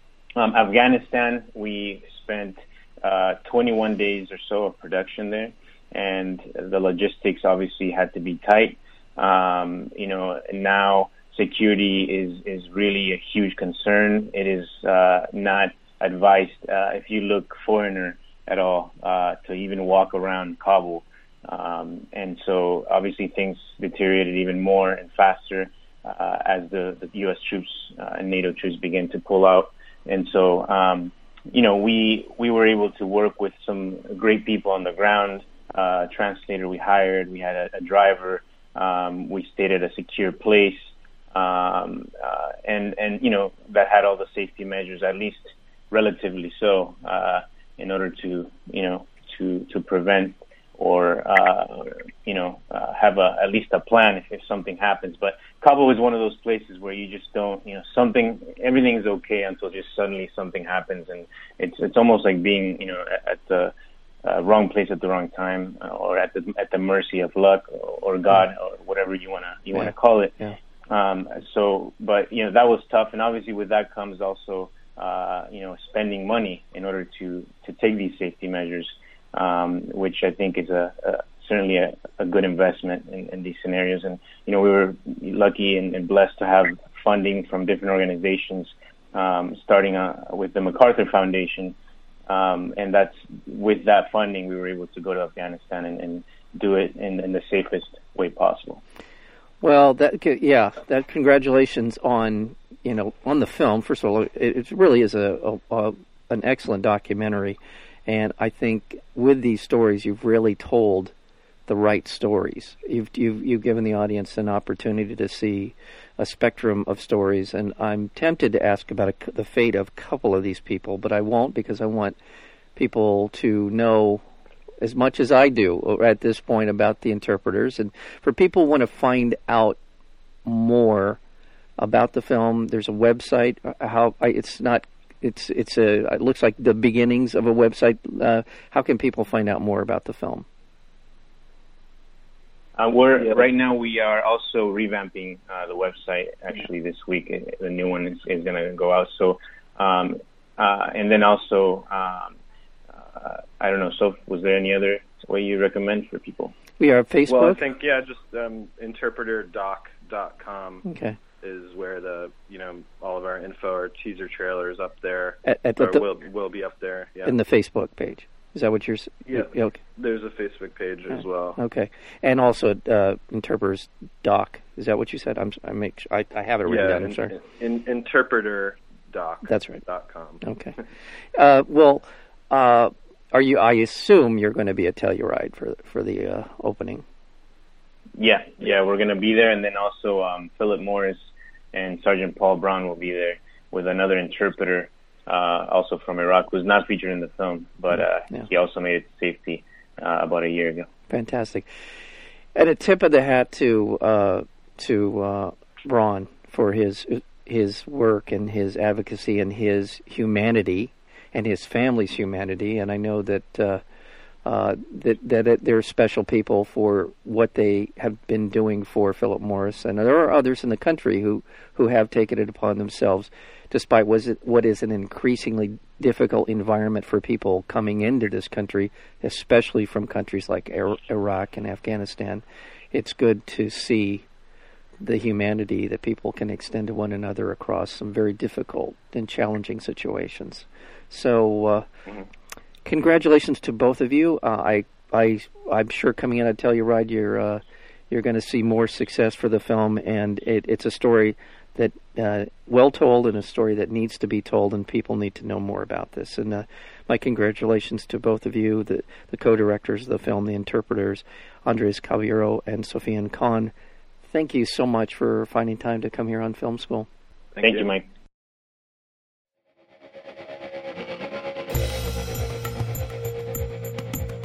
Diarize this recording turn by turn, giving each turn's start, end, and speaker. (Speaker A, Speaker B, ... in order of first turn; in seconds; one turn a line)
Speaker A: 0.4-63.7
Speaker A: 64.2-91.8
Speaker B: 69.8-70.6
Speaker A: 92.3-98.8
Speaker B: 99.6-111.1
Speaker B: 111.7-122.2
Speaker B: 122.8-124.2
Speaker B: 124.8-129.8
Speaker B: 130.4-131.2
Speaker B: 131.8-140.5
Speaker A: 142.8-152.4
Speaker A: 152.9-156.6
Speaker B: 156.8-157.6
Speaker C: 157.3-160.8
Speaker B: 160.8-161.2
Speaker C: 161.4-167.4
Speaker B: 165.4-166.0
Speaker B: 167.2-169.8
Speaker C: 169.3-171.6
Speaker B: 171.6-177.3
Speaker C: 176.7-180.4
Speaker B: 179.5-179.8
Speaker B: 180.4-180.8
Speaker B: 181.3-187.0
Speaker A: 188.2-191.2
Speaker A: 191.7-200.9
Speaker B: 201.1-201.7
Speaker B: 202.6-213.8
Speaker B: 214.4-234.3
Speaker B: 235.0-241.9
Speaker B: 242.8-263.7
Speaker B: 264.3-267.1
Speaker C: 267.6-267.8
Speaker A: 267.6-268.1